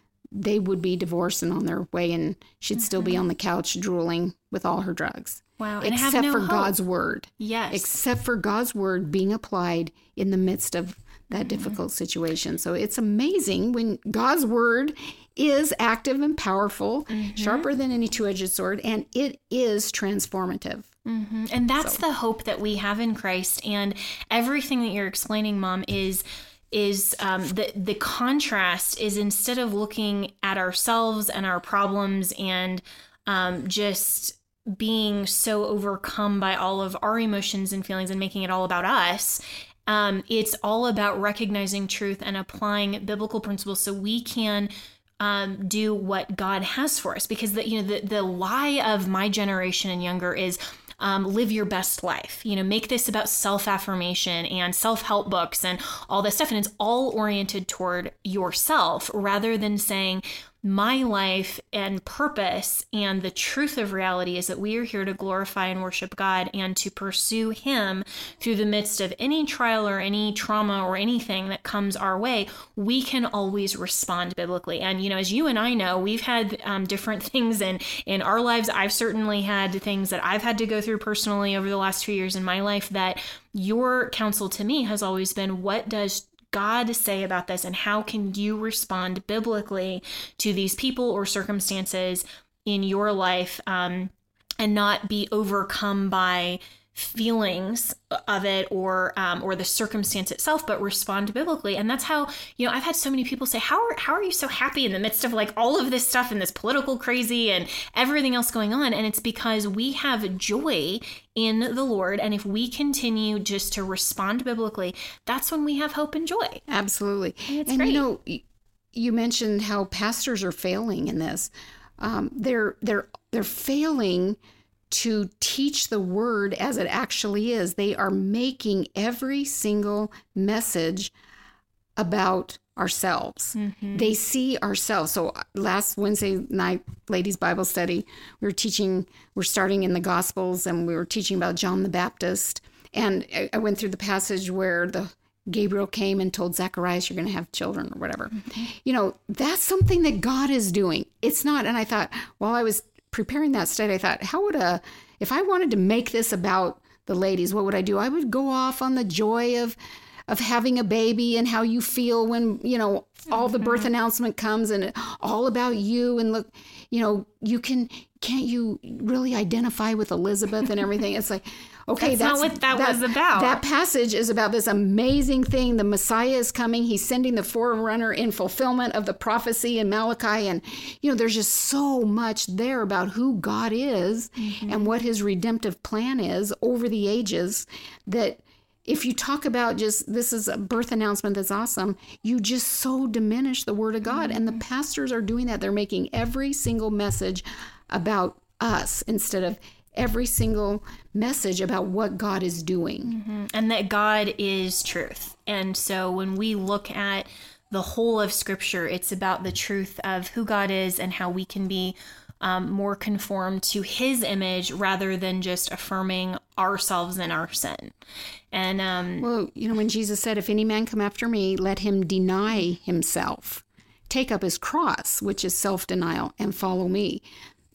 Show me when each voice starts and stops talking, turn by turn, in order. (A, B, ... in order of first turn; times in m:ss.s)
0:00.3-0:20.9 A
0:02.8-0:03.2 B
0:05.6-0:06.8 B
0:07.4-0:07.9 B
0:11.4-0:11.8 B
0:17.1-0:17.7 B
0:21.1-1:56.6 B
1:56.7-2:04.4 A
1:57.5-1:58.0 B
2:04.9-2:11.1 A
2:12.0-2:39.8 A
2:13.6-2:14.1 B
2:40.3-3:23.1 A
2:43.4-2:43.9 B
2:52.0-2:53.6 B
3:04.4-3:04.9 B
3:14.1-3:14.6 B
3:23.0-3:37.9 B
3:38.5-3:39.3 B
3:39.2-3:47.2 A